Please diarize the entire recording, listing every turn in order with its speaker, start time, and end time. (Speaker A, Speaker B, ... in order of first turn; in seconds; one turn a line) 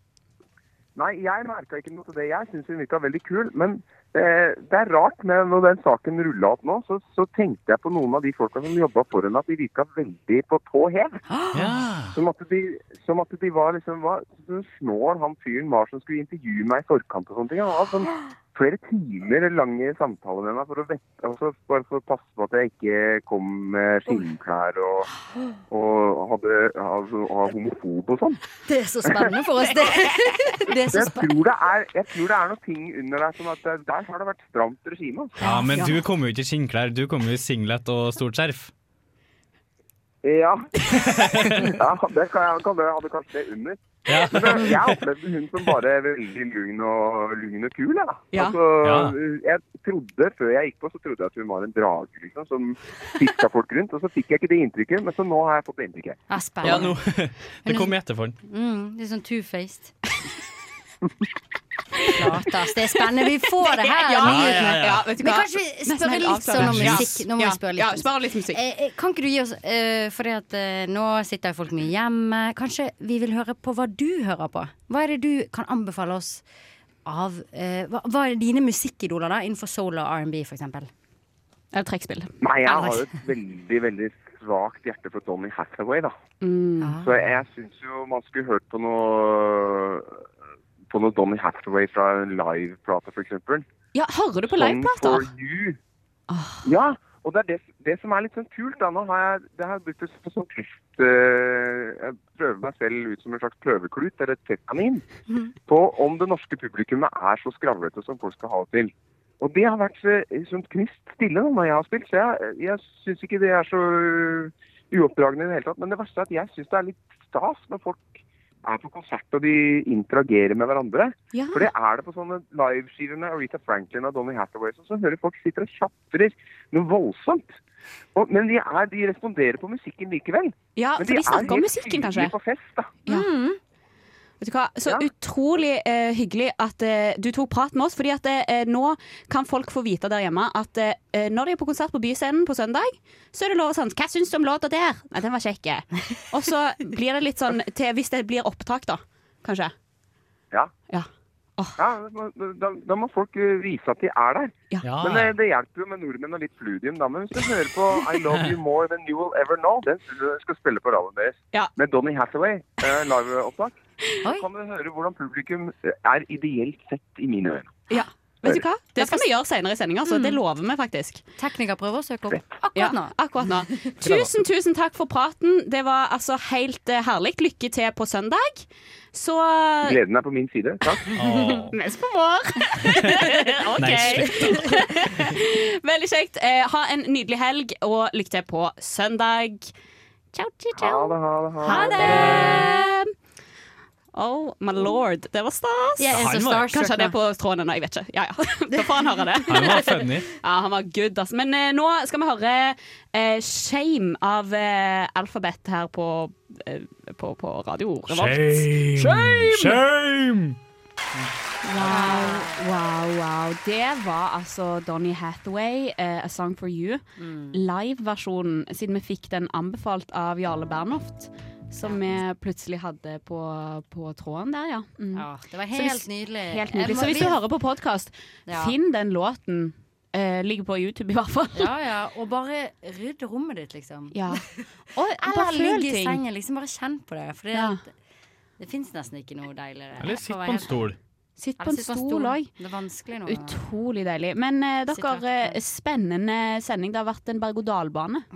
Speaker A: 0.9-11.2
Speaker B: 11.3-11.7
Speaker C: 11.5-12.1
Speaker A: 12.1-25.1
Speaker A: 25.7-28.4
Speaker B: 28.6-31.3
Speaker D: 29.6-30.7
Speaker A: 30.9-35.3
Speaker C: 35.4-38.7
Speaker D: 35.4-36.0
Speaker A: 40.2-56.2
Speaker C: 41.0-41.5
Speaker C: 44.1-45.0
Speaker C: 48.8-49.1
Speaker B: 56.3-57.0
Speaker C: 56.6-58.3
Speaker B: 57.6-57.9
Speaker B: 58.4-59.9
Speaker B: 62.1-76.4
Speaker D: 63.6-68.6
Speaker C: 64.2-65.0
Speaker C: 66.5-67.2
Speaker B: 77.0-80.9
Speaker D: 81.7-82.3
Speaker A: 82.4-86.2
Speaker B: 82.6-83.2
Speaker D: 86.4-87.0
Speaker B: 86.8-87.2
Speaker A: 87.0-90.2
Speaker A: 90.9-93.6
Speaker D: 93.9-95.3
Speaker A: 94.5-95.8
Speaker D: 96.3-96.6
Speaker A: 96.6-105.0
Speaker B: 105.3-105.5
Speaker A: 105.6-127.6
Speaker D: 121.3-121.7
Speaker A: 128.1-133.0
Speaker D: 130.8-132.3
Speaker B: 133.1-133.6
Speaker D: 134.4-149.7
Speaker D: 150.9-151.8
Speaker A: 151.8-163.8
Speaker C: 154.8-155.3
Speaker C: 158.3-158.6
Speaker B: 164.2-164.5
Speaker A: 164.3-167.9
Speaker D: 167.9-171.2
Speaker B: 168.9-169.3
Speaker B: 170.1-170.4
Speaker B: 171.4-174.2
Speaker D: 172.7-180.0
Speaker A: 179.8-181.0
Speaker C: 181.1-181.7
Speaker D: 181.7-189.7
Speaker C: 183.8-184.9
Speaker D: 190.3-193.1
Speaker A: 190.8-192.0
Speaker B: 191.6-192.8
Speaker C: 192.0-192.7
Speaker D: 194.1-209.8
Speaker B: 196.0-197.2
Speaker C: 196.1-196.7
Speaker B: 198.7-199.9
Speaker C: 199.5-200.3
Speaker C: 208.1-210.6
Speaker D: 211.7-231.7
Speaker B: 211.7-212.6
Speaker B: 217.2-217.6
Speaker B: 221.8-222.1
Speaker B: 225.1-227.4
Speaker B: 228.5-228.8
Speaker B: 231.5-234.6
Speaker D: 234.1-236.2
Speaker B: 235.2-237.9
Speaker D: 237.5-237.8
Speaker B: 238.6-240.7
Speaker C: 240.0-240.9
Speaker D: 241.4-242.5
Speaker B: 241.6-243.6
Speaker D: 243.2-248.3
Speaker B: 244.9-245.6